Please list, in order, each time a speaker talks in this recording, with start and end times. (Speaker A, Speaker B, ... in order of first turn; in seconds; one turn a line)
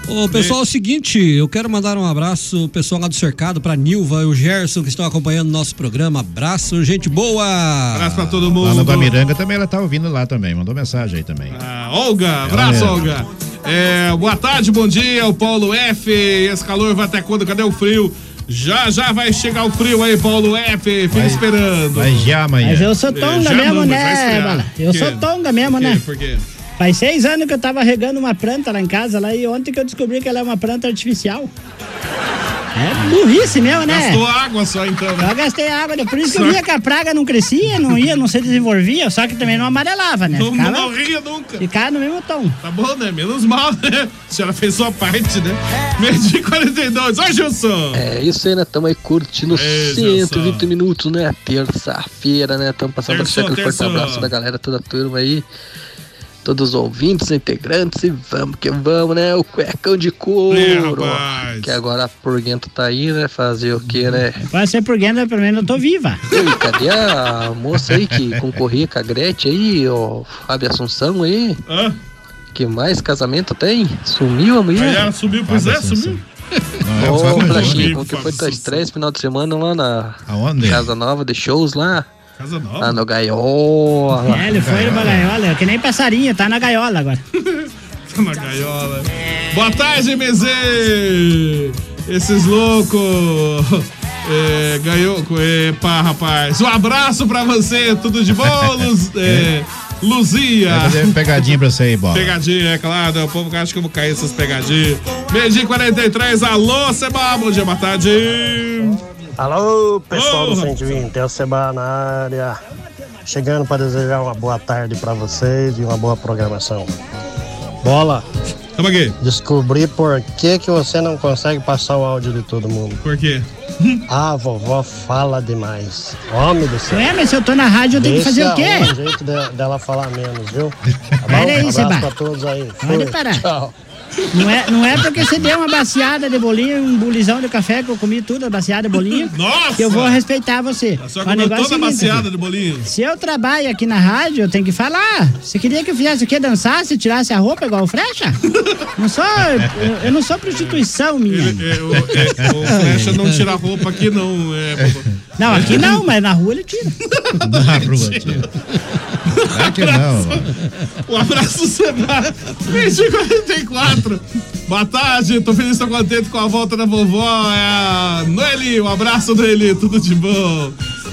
Speaker A: 0.1-8.4
Speaker B: 7.9-9.1
Speaker C: 8.6-11.6
Speaker B: 11.5-22.3
Speaker C: 12.5-13.0
Speaker C: 21.1-21.4
Speaker C: 21.9-22.9
Speaker D: 22.6-26.0
Speaker B: 23.1-26.4
Speaker D: 26.8-31.5
Speaker D: 32.8-34.2
Speaker B: 33.8-35.3
Speaker D: 35.2-40.9
Speaker B: 36.3-36.6
Speaker B: 40.3-41.6
Speaker D: 41.6-42.6
Speaker B: 42.6-48.0
Speaker E: 47.9-55.5
Speaker B: 49.5-50.7
Speaker B: 53.1-54.3
Speaker E: 56.5-64.4
Speaker B: 60.5-61.8
Speaker D: 64.5-66.2
Speaker E: 66.3-71.6
Speaker B: 71.7-72.0
Speaker E: 72.5-75.0
Speaker B: 74.8-76.2
Speaker C: 75.4-76.2
Speaker C: 76.8-78.0
Speaker B: 77.0-78.9
Speaker E: 77.0-82.1
Speaker C: 80.3-80.9
Speaker B: 82.4-83.0
Speaker E: 82.8-84.5
Speaker D: 84.3-87.2
Speaker C: 84.5-85.4
Speaker B: 87.5-101.6
Speaker C: 100.7-102.3
Speaker B: 102.1-109.0
Speaker F: 109.4-112.6
Speaker B: 110.1-111.0
Speaker F: 113.3-116.9
Speaker F: 117.8-118.3
Speaker B: 118.8-119.2
Speaker F: 119.2-123.0
Speaker B: 123.0-124.0
Speaker F: 124.1-127.0
Speaker D: 126.9-128.9
Speaker F: 128.0-130.7
Speaker C: 131.2-131.7
Speaker F: 131.3-133.7
Speaker D: 131.3-132.1
Speaker D: 132.8-133.5
Speaker D: 134.3-142.2
Speaker B: 139.1-140.2
Speaker B: 141.0-142.9
Speaker D: 142.9-148.4
Speaker D: 149.0-151.7
Speaker B: 150.5-156.0
Speaker C: 152.2-152.5
Speaker A: 152.7-153.4
Speaker D: 155.4-156.9
Speaker B: 157.1-158.5
Speaker C: 157.4-158.4
Speaker B: 159.3-160.5
Speaker C: 159.5-160.4
Speaker B: 161.1-170.8